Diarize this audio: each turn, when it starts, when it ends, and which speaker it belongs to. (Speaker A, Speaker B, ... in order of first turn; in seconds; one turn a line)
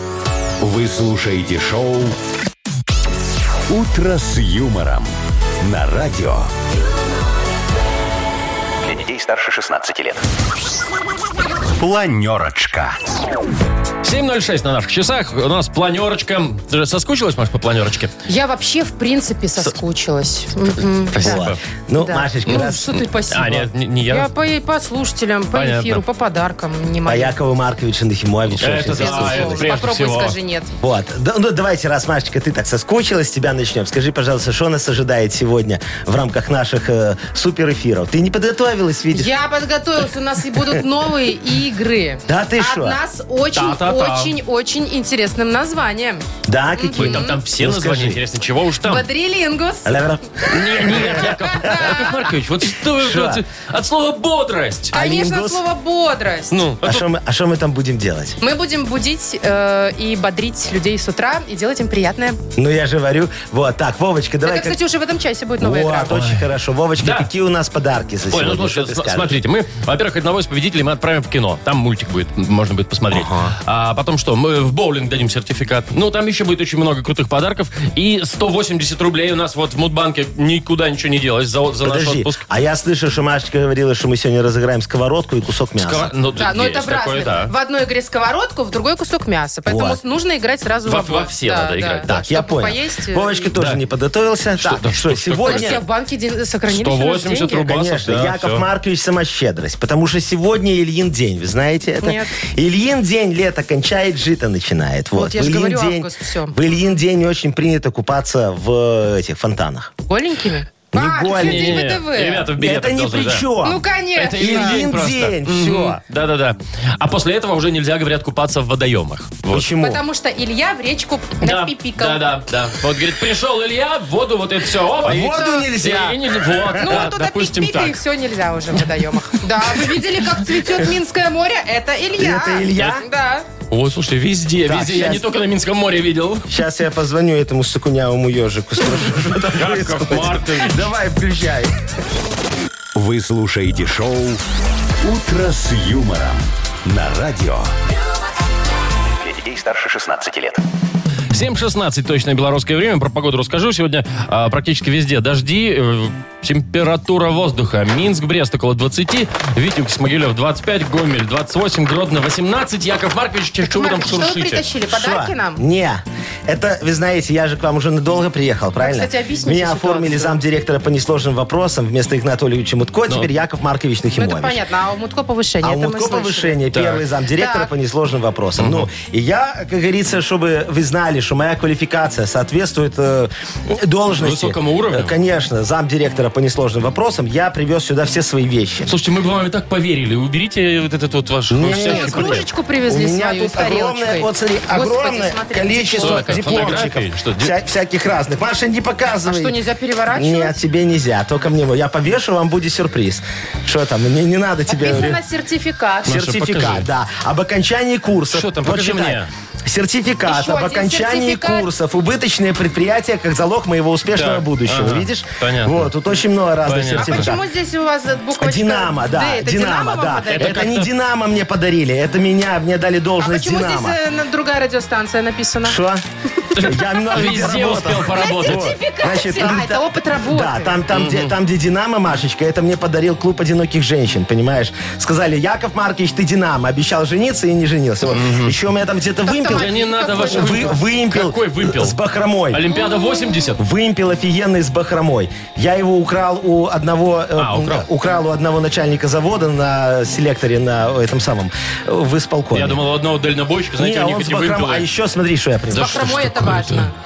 Speaker A: 0.6-2.2
Speaker A: 3.7-5.1
Speaker A: 5.6-6.5
Speaker A: 8.8-10.2
Speaker A: 11.8-13.0
Speaker B: 14.0-18.1
Speaker C: 18.3-21.5
Speaker D: 21.1-23.0
Speaker B: 21.1-21.6
Speaker C: 22.0-27.4
Speaker B: 23.3-24.3
Speaker B: 25.5-26.0
Speaker D: 27.1-29.7
Speaker B: 28.6-30.4
Speaker C: 28.9-30.7
Speaker D: 30.8-39.3
Speaker C: 39.1-47.4
Speaker D: 42.3-43.0
Speaker B: 43.5-44.3
Speaker D: 46.5-48.2
Speaker B: 47.0-49.1
Speaker C: 48.9-50.0
Speaker D: 49.9-52.0
Speaker B: 50.5-55.0
Speaker C: 51.3-52.3
Speaker D: 52.9-53.4
Speaker D: 54.9-55.6
Speaker C: 54.9-56.7
Speaker B: 56.5-57.1
Speaker D: 56.8-58.4
Speaker C: 58.4-62.4
Speaker D: 62.6-64.8
Speaker C: 64.4-66.1
Speaker D: 65.6-69.4
Speaker B: 66.1-66.4
Speaker B: 67.0-67.3
Speaker B: 68.3-82.4
Speaker D: 73.1-73.5
Speaker D: 81.8-86.1
Speaker B: 85.8-87.5
Speaker C: 86.4-93.5
Speaker D: 89.7-90.0
Speaker B: 90.9-92.2
Speaker D: 92.1-95.8
Speaker B: 94.6-95.8
Speaker C: 95.4-97.7
Speaker B: 96.7-98.7
Speaker D: 97.7-109.9
Speaker C: 102.0-102.3
Speaker C: 105.1-106.6
Speaker C: 110.1-112.5
Speaker D: 110.9-111.9
Speaker B: 111.3-113.5
Speaker D: 112.5-116.0
Speaker C: 113.6-114.8
Speaker B: 114.2-119.7
Speaker D: 119.5-120.0
Speaker C: 119.8-122.2
Speaker B: 121.4-128.0
Speaker D: 125.0-127.1
Speaker C: 125.3-125.7
Speaker C: 126.8-133.5
Speaker D: 132.2-133.1
Speaker B: 133.7-136.4
Speaker D: 134.7-135.3
Speaker D: 136.5-141.8
Speaker B: 139.5-140.9
Speaker A: 142.9-144.4
Speaker A: 145.0-147.7
Speaker A: 149.2-150.6
Speaker B: 151.3-164.6
Speaker C: 163.6-165.6
Speaker D: 164.9-174.6
Speaker C: 168.8-170.4
Speaker C: 174.2-176.6
Speaker D: 175.6-188.9
Speaker B: 176.7-177.0
Speaker C: 177.4-177.7
Speaker B: 178.6-178.9
Speaker B: 184.2-185.2
Speaker B: 188.9-192.4
Speaker D: 191.5-199.6
Speaker C: 191.8-196.8
Speaker B: 196.0-197.5
Speaker C: 199.2-200.6
Speaker D: 200.1-205.2
Speaker C: 204.7-206.1
Speaker B: 206.1-206.9
Speaker D: 206.1-217.4
Speaker B: 208.3-209.3
Speaker C: 210.3-211.7
Speaker B: 214.2-215.9
Speaker B: 216.7-217.4
Speaker C: 217.0-220.8
Speaker D: 218.4-224.0
Speaker B: 220.4-220.9
Speaker C: 223.2-225.8
Speaker D: 225.6-226.0
Speaker B: 226.6-228.7
Speaker D: 226.6-242.8
Speaker C: 228.1-230.8
Speaker B: 230.9-231.3
Speaker B: 238.1-238.6
Speaker C: 239.2-240.8
Speaker B: 239.4-242.0
Speaker B: 242.5-243.6
Speaker D: 243.6-252.8
Speaker B: 247.4-247.9
Speaker B: 252.5-254.9
Speaker D: 253.8-256.4
Speaker B: 255.7-256.9
Speaker C: 255.7-256.9